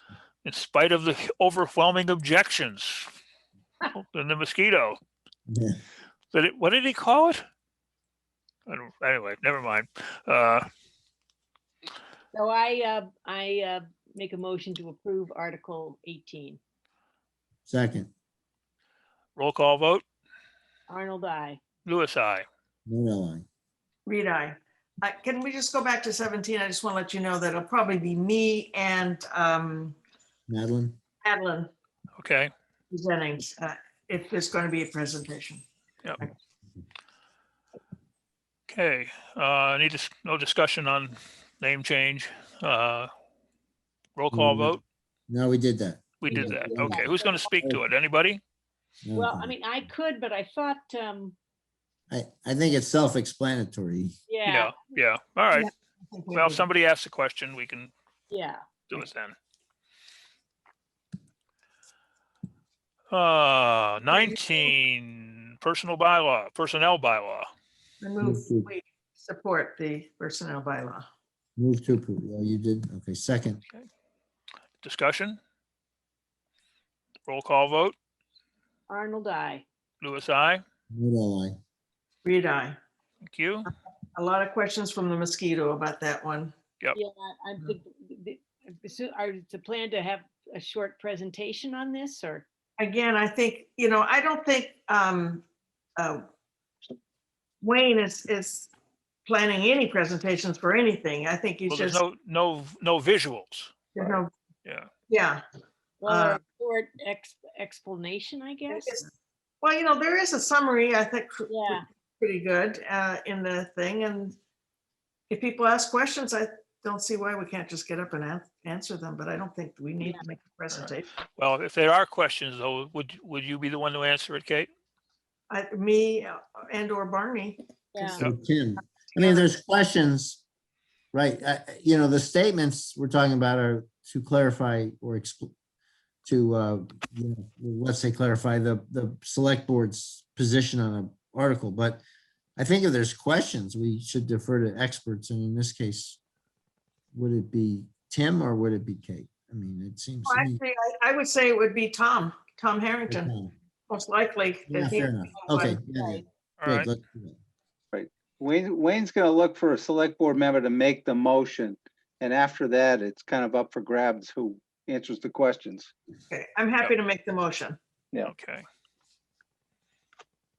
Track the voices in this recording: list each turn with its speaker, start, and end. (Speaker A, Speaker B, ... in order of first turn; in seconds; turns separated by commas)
Speaker A: 0.4-3.1, Speaker A: 3.9-5.0, Speaker B: 5.5-5.8, Speaker A: 6.3-7.4, Speaker A: 8.7-10.7, Speaker C: 12.3-16.6, Speaker B: 17.7-18.1, Speaker A: 19.4-20.0, Speaker C: 20.9-21.6, Speaker A: 21.9-22.4, Speaker B: 22.9-23.4, Speaker D: 24.1-29.9, Speaker B: 30.5-31.0, Speaker D: 31.2-31.7, Speaker A: 32.2-32.5, Speaker D: 32.9-35.6, Speaker A: 38.7-43.1, Speaker A: 44.1-44.8, Speaker B: 44.3-47.1, Speaker A: 46.2-48.4, Speaker C: 46.4-47.3, Speaker B: 49.0-49.9, Speaker C: 49.1-51.4, Speaker B: 52.1-54.2, Speaker C: 54.3-54.8, Speaker A: 54.4-55.7, Speaker D: 55.5-56.7, Speaker A: 56.3-57.9, Speaker C: 58.3-58.6, Speaker A: 58.9-59.4, Speaker A: 63.1-67.5, Speaker D: 68.0-71.1, Speaker B: 68.2-68.7, Speaker B: 71.6-73.6, Speaker A: 74.8-75.4, Speaker A: 77.2-77.9, Speaker C: 78.9-79.6, Speaker A: 80.0-80.6, Speaker B: 80.9-81.5, Speaker D: 82.2-82.8, Speaker A: 83.2-83.7, Speaker D: 84.1-86.5, Speaker C: 86.9-92.5, Speaker D: 92.8-95.4, Speaker D: 96.0-96.2, Speaker D: 97.6-98.7, Speaker D: 99.2-102.0, Speaker A: 101.7-103.8, Speaker D: 103.9-104.3, Speaker D: 105.1-105.4, Speaker C: 106.0-109.0, Speaker D: 106.1-106.4, Speaker D: 108.7-109.0, Speaker D: 109.6-114.3, Speaker C: 111.5-111.8, Speaker D: 115.3-121.1, Speaker A: 120.7-124.7, Speaker D: 125.5-128.2, Speaker C: 127.9-128.2, Speaker B: 128.2-130.4, Speaker D: 129.2-129.5, Speaker B: 131.1-135.5, Speaker B: 136.2-142.0, Speaker B: 142.6-146.2, Speaker B: 147.1-150.6, Speaker D: 150.2-153.3, Speaker B: 153.1-153.5, Speaker D: 153.9-155.8, Speaker B: 154.7-157.4, Speaker A: 156.6-156.9, Speaker E: 157.9-165.9, Speaker D: 166.3-167.8, Speaker A: 168.2-168.6